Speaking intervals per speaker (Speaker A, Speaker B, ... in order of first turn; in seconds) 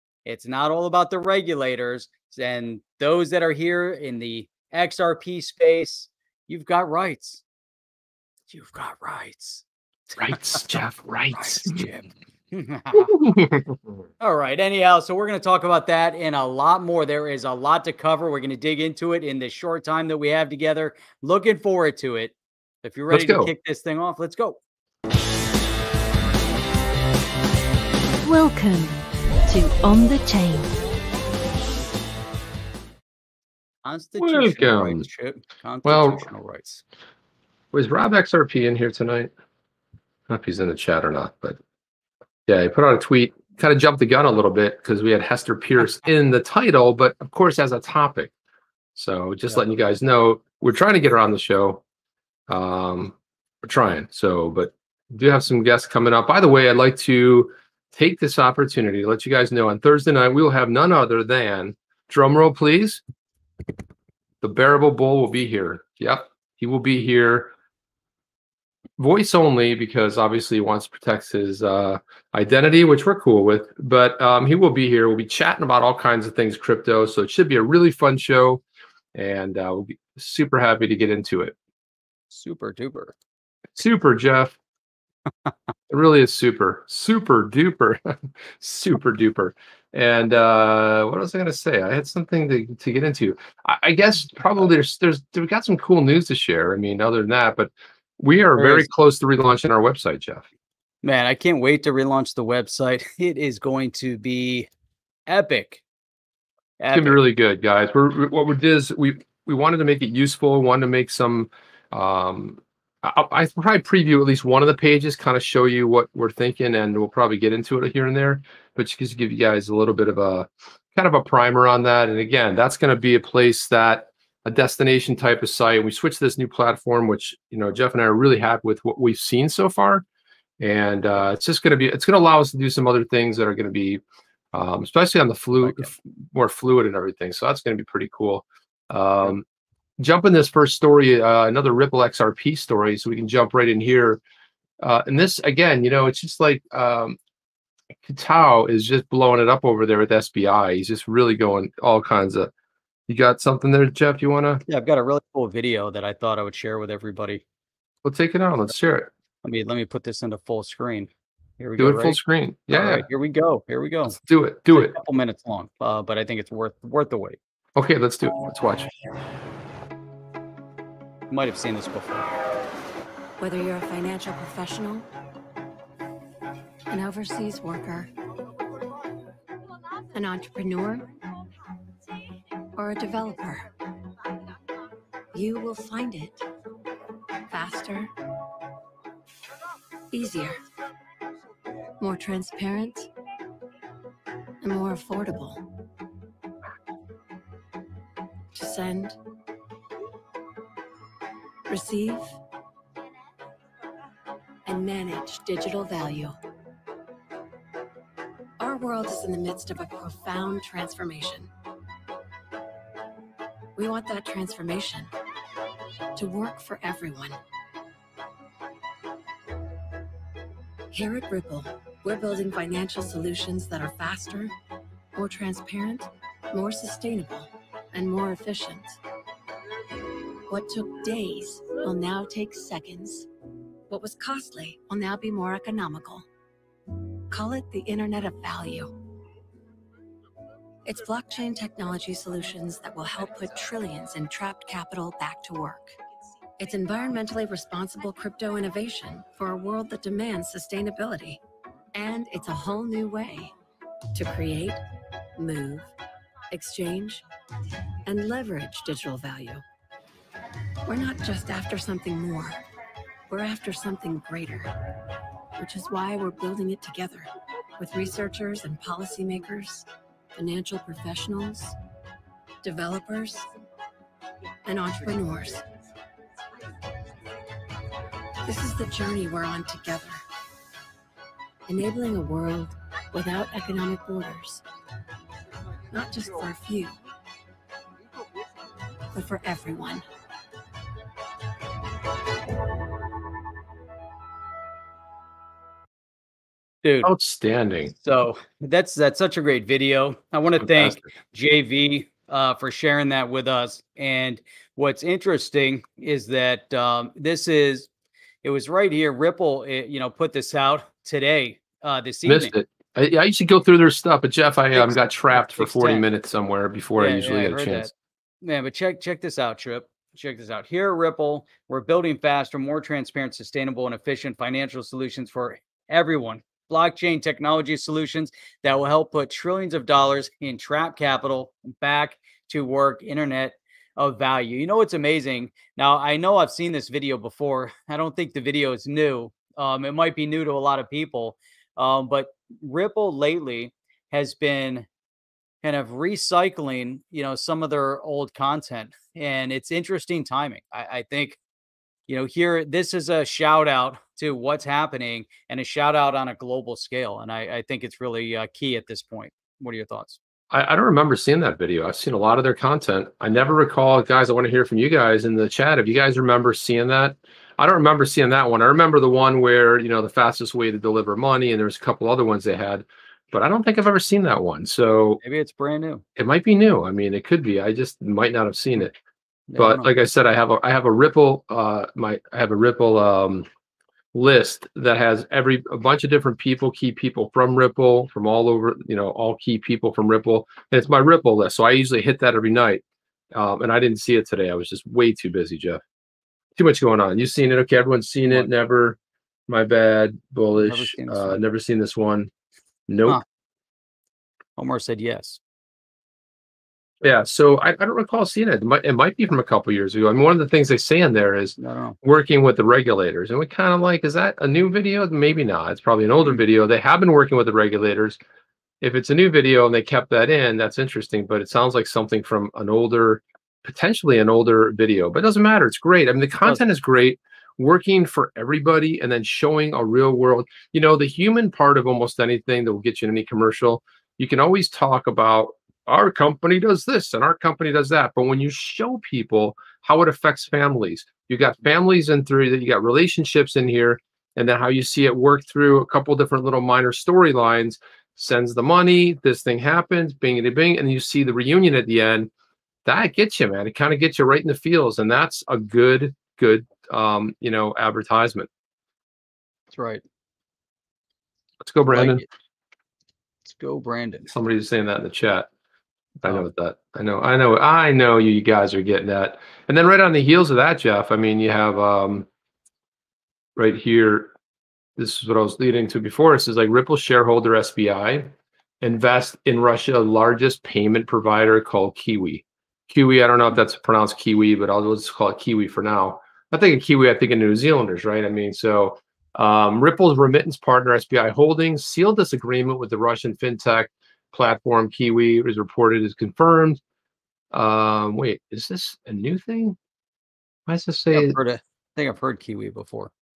Speaker A: 0.2-7.4, 8.5-10.6, 11.3-13.2, 14.2-24.6, 33.8-36.8, 82.3-83.1, 98.6-98.9, 101.0-104.7, 105.3-105.8, 106.8-107.2, 135.6-135.9, 154.7-157.4, 159.4-162.2, 162.7-164.2, 164.7-167.4, 171.3-172.3, 296.8-297.1, 297.9-307.9, 308.4-312.5, 314.7-316.0, 317.0-317.9, 318.4-344.9, 345.6-351.4, 352.1-360.2, 375.2-376.0, 379.5-379.9, 400.6-401.4, 404.6-405.4, 411.6-412.0, 459.7-460.0, 461.9-462.2, 463.4-464.3, 501.1-503.1
Speaker B: 10.2-11.8, 13.0-13.8, 23.1-23.5, 34.2-35.0, 35.8-36.3, 37.7-39.3, 40.3-41.6, 42.5-48.3, 49.0-51.8, 52.5-63.0, 64.4-67.5, 69.0-78.6, 79.2-81.5, 83.8-84.6, 85.9-100.4, 106.9-130.1, 130.6-134.0, 134.5-139.4, 140.0-144.2, 144.8-147.2, 148.0-152.5, 153.1-154.6, 158.0-159.1, 161.8-163.1, 164.2-165.0, 167.8-168.9, 297.0-297.9, 300.6-301.0, 312.2-317.9, 360.5-375.2, 376.1-379.0, 379.6-383.5, 384.1-392.8, 393.3-395.8, 396.6-402.3, 402.9-403.2, 407.0-418.2, 418.8-452.3, 452.8-458.5, 461.6-462.2, 464.3-465.5, 466.2-472.3, 473.6-474.3, 475.0-496.8, 497.5-499.8, 500.7-501.4
Speaker C: 28.2-30.8
Speaker D: 173.4-175.1, 176.9-178.1, 180.1-181.1, 182.8-183.7, 185.3-186.4, 187.5-188.1, 190.1-190.6, 192.0-193.1, 194.6-195.6, 198.5-199.2, 201.7-202.4, 204.7-206.4, 208.6-211.5, 213.8-215.1, 216.2-217.4, 220.9-224.5, 225.2-229.0, 230.5-233.3, 233.9-236.2, 237.3-238.9, 240.8-246.0, 246.6-251.4, 251.9-253.5, 254.1-254.8, 255.4-255.9, 256.5-257.2, 258.1-259.6, 260.9-262.6, 263.3-264.7, 265.6-271.8, 272.6-273.5, 274.6-275.6, 278.4-280.2, 281.7-284.6, 285.9-286.9, 289.1-290.0